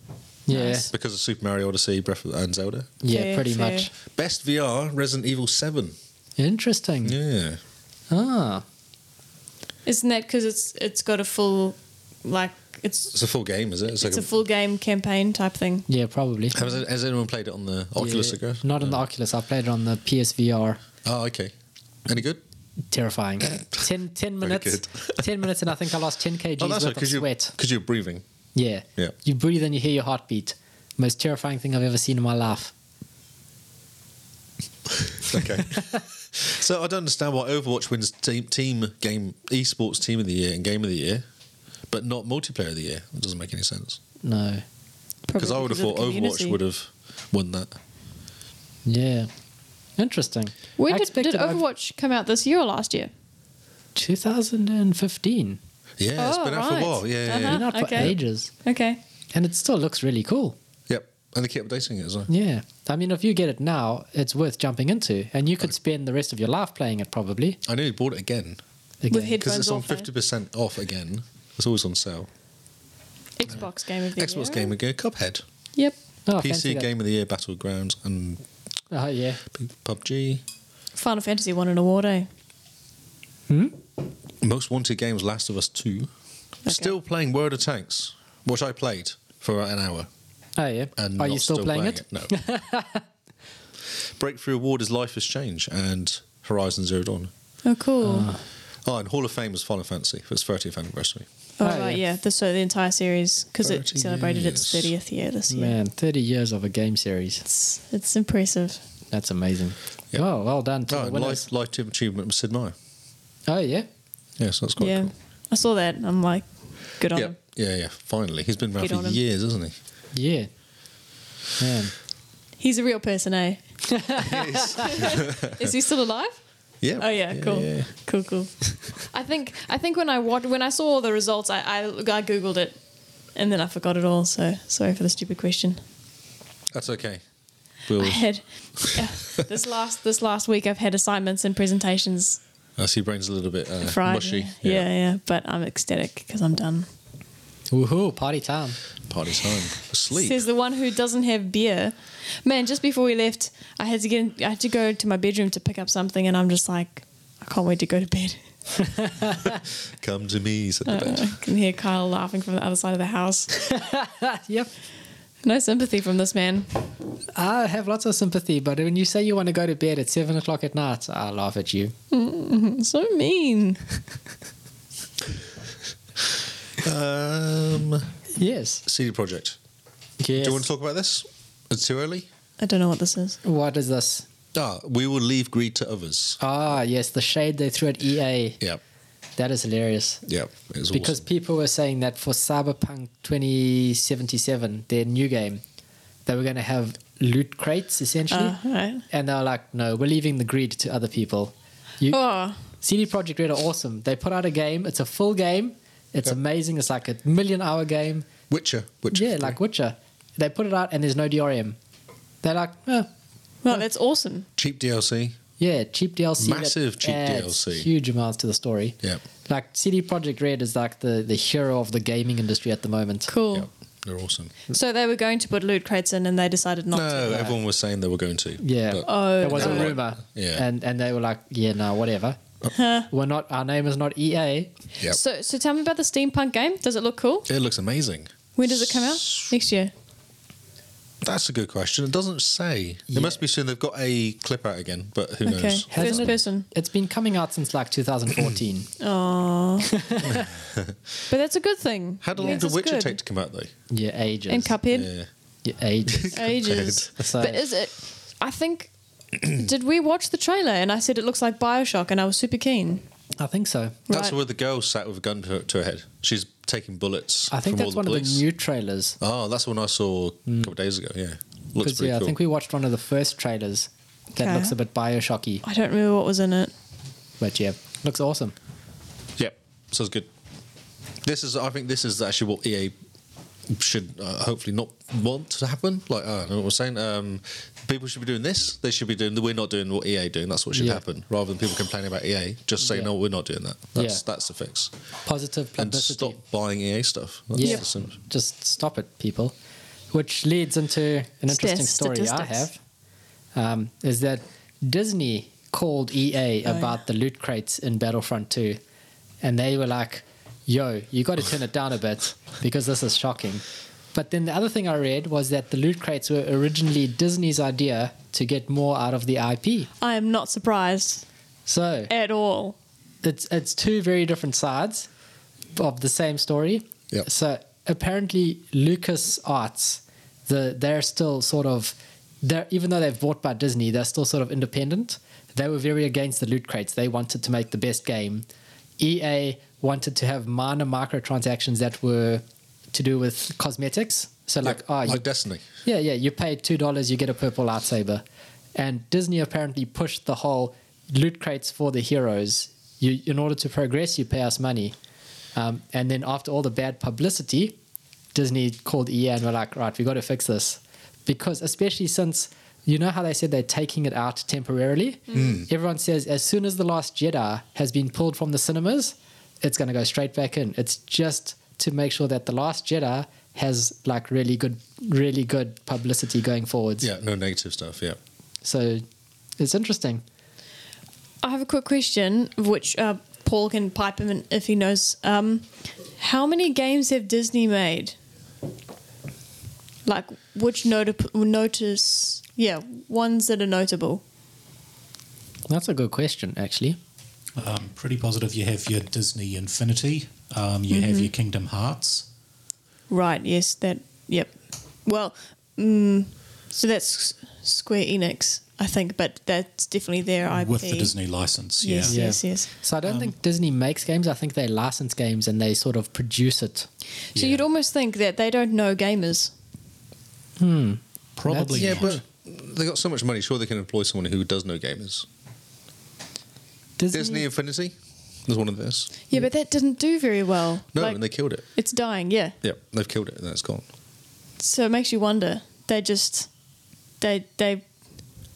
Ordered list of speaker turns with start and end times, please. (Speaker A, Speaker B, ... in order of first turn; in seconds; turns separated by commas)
Speaker A: 0.5-0.9, Speaker B: 0.5-0.9, Speaker C: 0.9-2.9, Speaker A: 3.0-3.9, Speaker B: 3.1-3.9, Speaker C: 4.2-6.0, Speaker A: 6.4-7.2, Speaker C: 7.0-7.6, Speaker A: 8.1-8.6, Speaker B: 9.9-13.2, Speaker C: 13.1-14.3, Speaker B: 13.9-15.9, Speaker A: 15.9-16.6, Speaker C: 16.5-19.0, Speaker A: 18.0-20.8, Speaker C: 21.1-21.5, Speaker C: 22.1-22.4, Speaker A: 22.9-27.5, Speaker C: 24.4-25.5, Speaker C: 26.6-28.2, Speaker A: 28.6-32.7, Speaker C: 35.1-41.2, Speaker C: 41.9-44.0, Speaker A: 44.2-44.6, Speaker B: 45.3-46.6, Speaker C: 45.4-47.8, Speaker A: 48.9-49.3, Speaker A: 50.0-51.6, Speaker B: 50.8-53.1, Speaker A: 54.0-55.6, Speaker C: 56.0-58.1, Speaker B: 56.2-58.1, Speaker A: 57.4-58.5, Speaker B: 58.6-59.0, Speaker A: 59.3-60.6, Speaker C: 60.9-62.3, Speaker A: 62.3-67.6, Speaker C: 67.7-68.6, Speaker A: 69.0-69.4, Speaker B: 69.1-70.1, Speaker C: 69.4-72.3, Speaker B: 73.4-74.7, Speaker C: 74.2-75.4, Speaker A: 76.3-76.9, Speaker C: 76.4-78.4, Speaker A: 78.9-79.4, Speaker C: 79.5-80.4, Speaker B: 81.0-82.3, Speaker A: 83.5-83.8, Speaker C: 84.4-86.1, Speaker B: 86.7-86.9, Speaker C: 86.7-90.1, Speaker A: 90.6-93.0, Speaker C: 91.0-92.3, Speaker C: 93.9-97.3, Speaker B: 97.7-98.3, Speaker A: 98.0-98.4, Speaker C: 98.8-101.3, Speaker B: 101.6-105.8, Speaker A: 101.6-102.0, Speaker C: 103.6-104.9, Speaker A: 105.5-107.5, Speaker B: 107.5-108.8, Speaker A: 109.1-111.5, Speaker C: 110.9-112.7, Speaker A: 113.5-113.9, Speaker C: 114.4-115.1, Speaker B: 114.8-117.4, Speaker C: 117.1-119.8, Speaker B: 118.8-119.2, Speaker A: 120.1-120.5, Speaker A: 121.6-121.9, Speaker B: 122.6-123.6, Speaker A: 123.9-124.8, Speaker C: 124.2-125.7, Speaker B: 124.8-126.4, Speaker C: 126.8-127.9, Speaker B: 127.0-132.8, Speaker B: 133.3-135.8, Speaker C: 136.7-137.2, Speaker C: 137.9-138.2, Speaker B: 138.0-142.4, Speaker C: 142.8-144.9, Speaker B: 143.8-146.9, Speaker A: 147.7-148.8, Speaker C: 149.1-150.4, Speaker B: 150.1-158.4, Speaker A: 158.8-159.4, Speaker C: 159.3-161.3, Speaker B: 160.9-163.5, Speaker A: 163.7-164.7, Speaker B: 165.4-166.7, Speaker A: 167.3-171.9, Speaker B: 172.1-173.8, Speaker C: 176.8-178.1, Speaker A: 178.4-178.8, Speaker C: 178.8-179.6, Speaker A: 180.2-180.7, Speaker C: 180.4-182.3, Speaker B: 182.6-183.4, Speaker A: 183.4-184.3, Speaker C: 184.5-186.4, Speaker A: 186.4-188.6, Speaker A: 189.4-190.2, Speaker C: 190.3-191.2, Speaker A: 190.9-195.6, Speaker A: 196.3-198.6, Speaker B: 198.3-199.0, Speaker A: 199.1-202.2, Speaker B: 202.1-202.6, Speaker A: 202.8-208.3, Speaker C: 208.5-209.6, Speaker A: 209.1-211.8, Speaker A: 212.4-213.1, Speaker B: 213.6-214.5, Speaker C: 214.6-215.4, Speaker A: 215.6-223.3, Speaker C: 216.4-217.9, Speaker B: 223.3-223.7, Speaker C: 223.5-224.5, Speaker B: 224.7-227.5, Speaker C: 226.9-230.7, Speaker A: 228.6-232.4, Speaker B: 229.1-229.9, Speaker B: 232.7-233.1, Speaker A: 233.1-234.7, Speaker B: 235.1-237.5, Speaker C: 237.5-239.5, Speaker B: 238.6-239.9, Speaker C: 241.2-246.3, Speaker A: 243.1-243.4, Speaker B: 245.4-246.7, Speaker A: 245.9-248.9, Speaker B: 249.0-250.0, Speaker A: 250.0-250.4, Speaker C: 250.3-251.0, Speaker B: 251.3-253.2, Speaker C: 252.2-253.7, Speaker A: 253.9-254.8, Speaker B: 254.5-255.1, Speaker C: 254.9-255.3, Speaker A: 255.6-256.4, Speaker C: 256.1-257.1, Speaker B: 256.3-263.0, Speaker A: 257.2-257.6, Speaker A: 263.4-264.0, Speaker B: 264.1-264.4, Speaker C: 264.1-268.4, Speaker A: 267.5-269.2, Speaker C: 269.2-272.4, Speaker A: 270.5-270.7, Speaker A: 271.8-275.6, Speaker B: 274.4-274.8, Speaker B: 275.6-276.7, Speaker A: 277.4-278.6, Speaker C: 279.4-280.3, Speaker C: 281.2-282.9, Speaker C: 283.7-294.9, Speaker A: 290.7-291.0, Speaker A: 292.8-293.1, Speaker A: 294.0-294.2, Speaker A: 295.2-296.4, Speaker C: 295.8-298.1, Speaker A: 297.5-299.6, Speaker A: 300.1-302.8, Speaker B: 301.5-302.7, Speaker A: 303.6-308.8, Speaker B: 306.7-306.9, Speaker A: 309.4-319.9, Speaker B: 320.0-321.2, Speaker A: 321.7-322.1, Speaker B: 322.1-322.8, Speaker A: 323.2-325.1, Speaker A: 325.8-338.5, Speaker A: 339.0-345.2, Speaker C: 344.6-345.6, Speaker A: 345.8-348.2, Speaker A: 348.8-354.9, Speaker A: 355.6-357.8, Speaker A: 358.3-377.1, Speaker C: 365.3-365.7, Speaker C: 377.0-378.2, Speaker A: 378.6-379.0, Speaker A: 379.6-380.2, Speaker B: 381.4-388.1, Speaker B: 390.1-394.2, Speaker A: 395.7-397.0, Speaker D: 397.6-402.3, Speaker B: 400.9-401.3, Speaker B: 403.1-404.5, Speaker B: 405.1-411.1, Speaker D: 410.5-412.2, Speaker B: 411.8-412.7, Speaker A: 412.1-416.9, Speaker D: 417.4-417.6, Speaker B: 417.4-419.5, Speaker A: 420.6-422.2, Speaker D: 421.4-422.2, Speaker C: 421.7-425.3, Speaker A: 427.0-427.5, Speaker C: 427.1-429.1, Speaker B: 429.3-432.6, Speaker C: 430.9-431.7, Speaker C: 432.6-433.9, Speaker B: 434.6-436.5, Speaker B: 437.2-437.8